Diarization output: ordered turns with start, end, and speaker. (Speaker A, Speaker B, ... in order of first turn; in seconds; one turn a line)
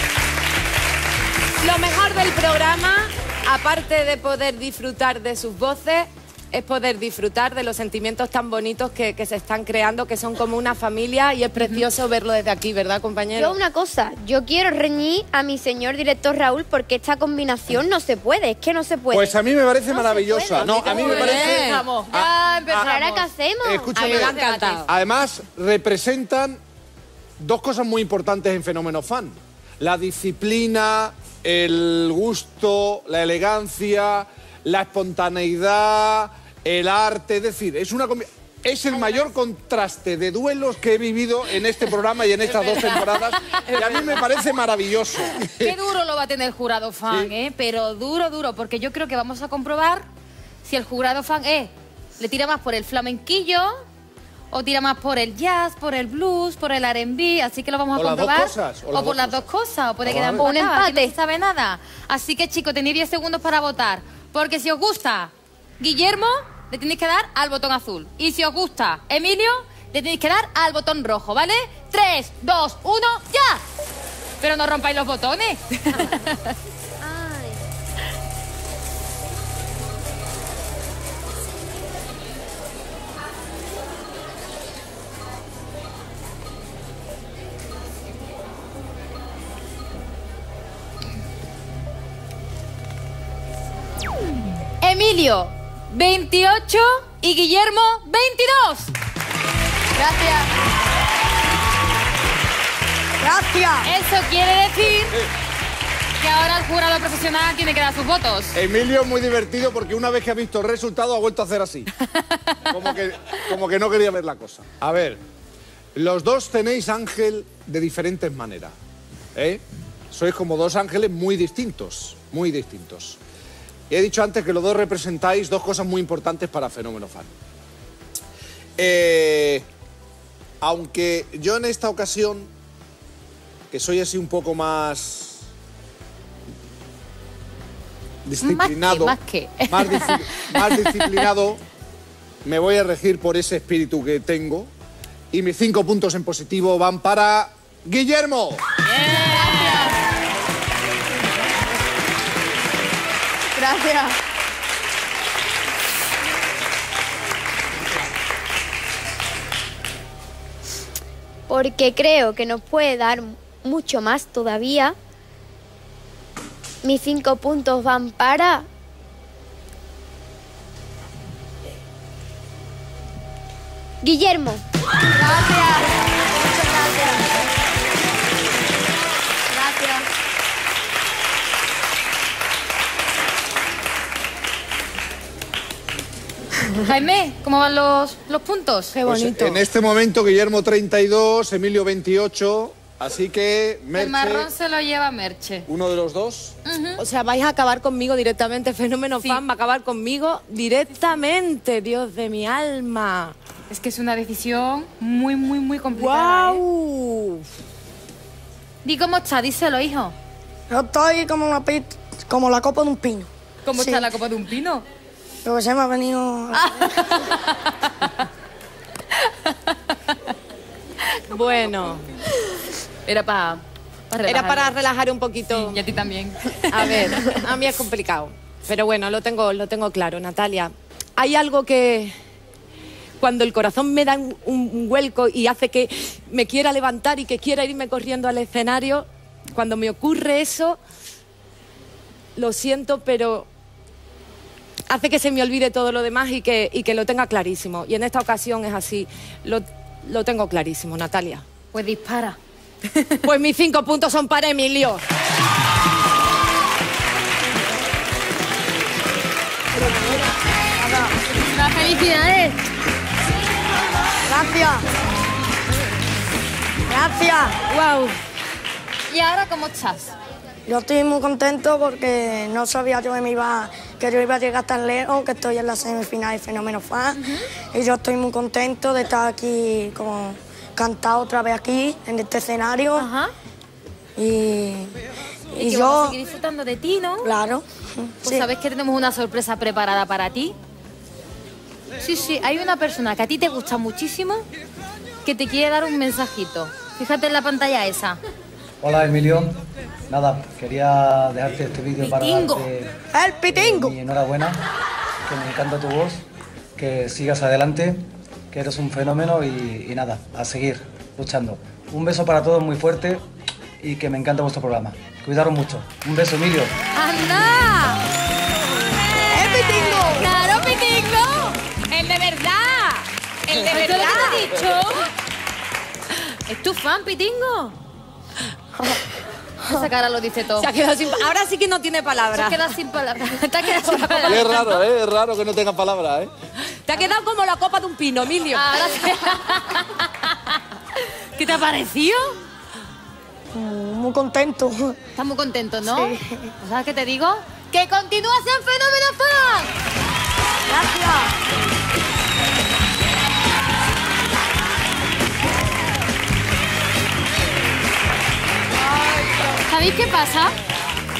Speaker A: 1.6-13.6
Speaker B: 11.6-11.8
Speaker C: 13.4-19.4
Speaker D: 19.1-22.3
Speaker C: 19.9-20.9
Speaker A: 20.5-21.9
Speaker B: 20.9-23.3
Speaker C: 22.7-24.1
Speaker D: 23.6-26.6
Speaker A: 23.9-24.9
Speaker B: 24.0-24.9
Speaker D: 27.4-45.8
Speaker B: 42.4-44.3
Speaker B: 45.4-50.0
Speaker D: 47.1-47.3
Speaker B: 50.6-53.7
Speaker B: 54.5-73.6
Speaker D: 57.9-59.5
Speaker D: 60.0-60.5
Speaker C: 60.5-61.1
Speaker B: 74.4-76.5
Speaker C: 77.0-77.6
Speaker B: 94.8-98.9
Speaker E: 100.0-100.4
Speaker F: 103.2-103.9
Speaker B: 103.8-105.1
Speaker B: 106.2-108.6
Speaker D: 108.5-111.9
Speaker B: 112.1-112.6
Speaker D: 112.7-115.2
Speaker D: 115.9-118.7
Speaker D: 119.3-123.2
Speaker D: 123.9-127.3
Speaker D: 128.8-129.7
Speaker D: 130.6-132.5
Speaker D: 133.7-135.4
Speaker D: 138.2-139.2
Speaker B: 138.4-141.2
Speaker D: 139.7-141.6
Speaker D: 142.4-144.7
Speaker D: 145.3-148.6
Speaker B: 148.8-149.9
Speaker E: 149.3-149.8
Speaker E: 153.5-154.2
Speaker C: 161.5-164.9
Speaker C: 166.8-168.7
Speaker C: 174.0-174.6
Speaker E: 175.2-177.2
Speaker E: 179.5-180.0
Speaker B: 186.8-188.9
Speaker A: 188.9-189.6
Speaker D: 189.1-194.5
Speaker B: 193.9-195.7
Speaker D: 195.7-196.6
Speaker B: 196.7-197.0
Speaker A: 197.0-203.3
Speaker B: 203.7-206.6
Speaker A: 205.9-207.4
Speaker B: 208.8-210.1
Speaker F: 210.7-214.1
Speaker B: 213.6-214.8
Speaker F: 215.4-216.9
Speaker B: 216.5-217.9
Speaker B: 219.2-219.9
Speaker A: 221.3-222.0
Speaker B: 223.1-224.8
Speaker A: 224.2-225.8
Speaker B: 225.5-227.4
Speaker A: 226.7-232.1
Speaker A: 233.2-240.8
Speaker A: 242.3-243.5
Speaker A: 244.9-251.4
Speaker B: 251.7-252.4
Speaker B: 252.9-253.2
Speaker A: 253.2-255.0
Speaker F: 260.8-261.1
Speaker B: 261.4-262.6
Speaker F: 264.3-264.8
Speaker F: 266.9-267.6
Speaker A: 267.7-268.1
Speaker B: 269.1-270.1
Speaker F: 270.7-277.2
Speaker F: 277.7-283.1
Speaker B: 282.9-283.3
Speaker F: 284.2-284.9
Speaker F: 285.5-286.2
Speaker B: 285.6-287.3
Speaker F: 287.2-288.5
Speaker B: 288.2-290.5
Speaker B: 292.0-294.4
Speaker B: 295.2-298.2
Speaker G: 298.8-302.9
Speaker B: 302.0-302.7
Speaker F: 303.1-304.0
Speaker G: 303.5-304.6
Speaker G: 305.3-306.2
Speaker G: 306.8-313.2
Speaker G: 313.8-316.7
Speaker B: 316.9-318.0
Speaker F: 319.3-320.3
Speaker B: 319.3-321.6
Speaker A: 321.9-324.5
Speaker B: 323.5-325.1
Speaker B: 326.5-327.8
Speaker B: 329.6-330.7
Speaker A: 330.6-332.7
Speaker B: 332.3-334.8
Speaker A: 333.9-334.5
Speaker D: 334.2-336.3
Speaker A: 336.8-338.7
Speaker B: 338.5-342.3
Speaker F: 343.5-344.9
Speaker B: 345.1-349.7
Speaker F: 345.9-346.5
Speaker F: 350.7-351.3
Speaker B: 359.6-360.5